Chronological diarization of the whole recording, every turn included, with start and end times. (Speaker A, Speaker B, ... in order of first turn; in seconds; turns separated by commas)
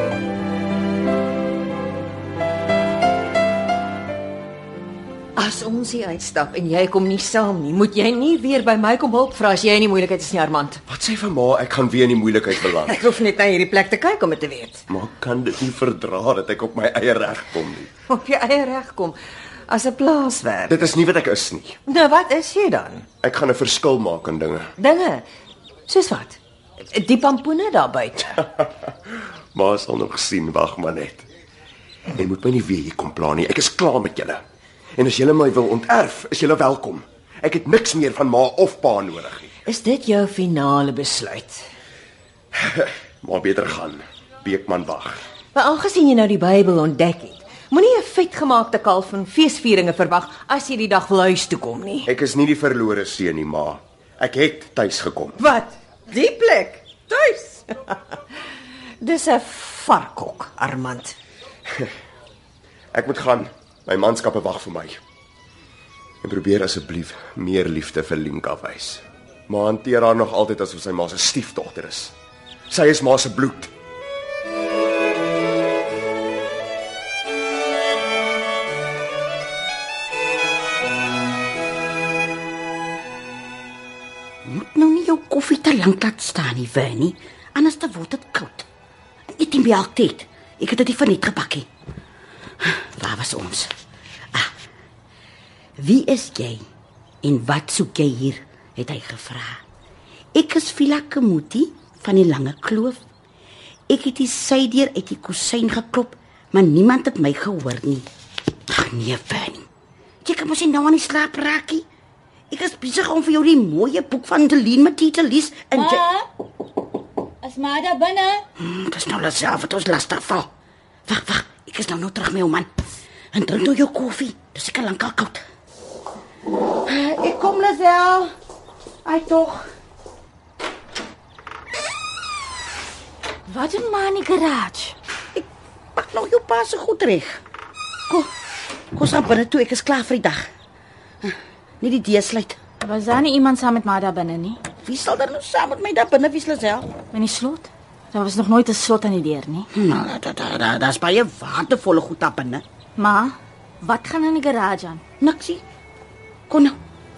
Speaker A: 5.4-10.8, Speaker B: 10.9-12.9, Speaker A: 12.5-14.8, Speaker B: 14.9-17.9, Speaker A: 18.1-19.2, Speaker A: 19.7-21.0, Speaker B: 20.7-21.8, Speaker A: 21.9-23.1, Speaker B: 23.2-24.7, Speaker A: 24.8-25.2, Speaker A: 25.9-26.4, Speaker A: 26.9-28.5, Speaker B: 29.5-31.2, Speaker B: 32.1-34.4, Speaker B: 35.0-39.5, Speaker A: 39.6-41.6, Speaker B: 42.5-45.2, Speaker A: 45.5-52.1, Speaker B: 52.0-55.4, Speaker A: 55.4-58.0, Speaker A: 59.0-61.1, Speaker B: 62.9-65.0, Speaker B: 66.2-72.1, Speaker B: 72.7-73.7, Speaker C: 84.4-88.7, Speaker C: 89.3-91.7, Speaker C: 92.6-93.7, Speaker C: 95.8-96.6, Speaker C: 97.2-99.6, Speaker C: 100.3-103.0, Speaker C: 103.9-108.0, Speaker C: 108.7-109.7, Speaker C: 110.2-111.9, Speaker C: 112.5-116.1, Speaker D: 115.8-116.1, Speaker D: 117.4-118.4, Speaker C: 118.6-120.5, Speaker C: 121.1-122.7, Speaker C: 123.3-125.4, Speaker C: 126.8-128.3, Speaker C: 129.0-129.7, Speaker D: 133.5-134.9, Speaker C: 135.3-137.4, Speaker C: 138.9-140.5, Speaker C: 141.2-142.6, Speaker D: 142.8-144.6, Speaker C: 144.8-146.9, Speaker D: 147.1-149.7, Speaker C: 149.7-152.6, Speaker D: 153.0-155.0, Speaker C: 155.2-155.6, Speaker C: 156.5-156.8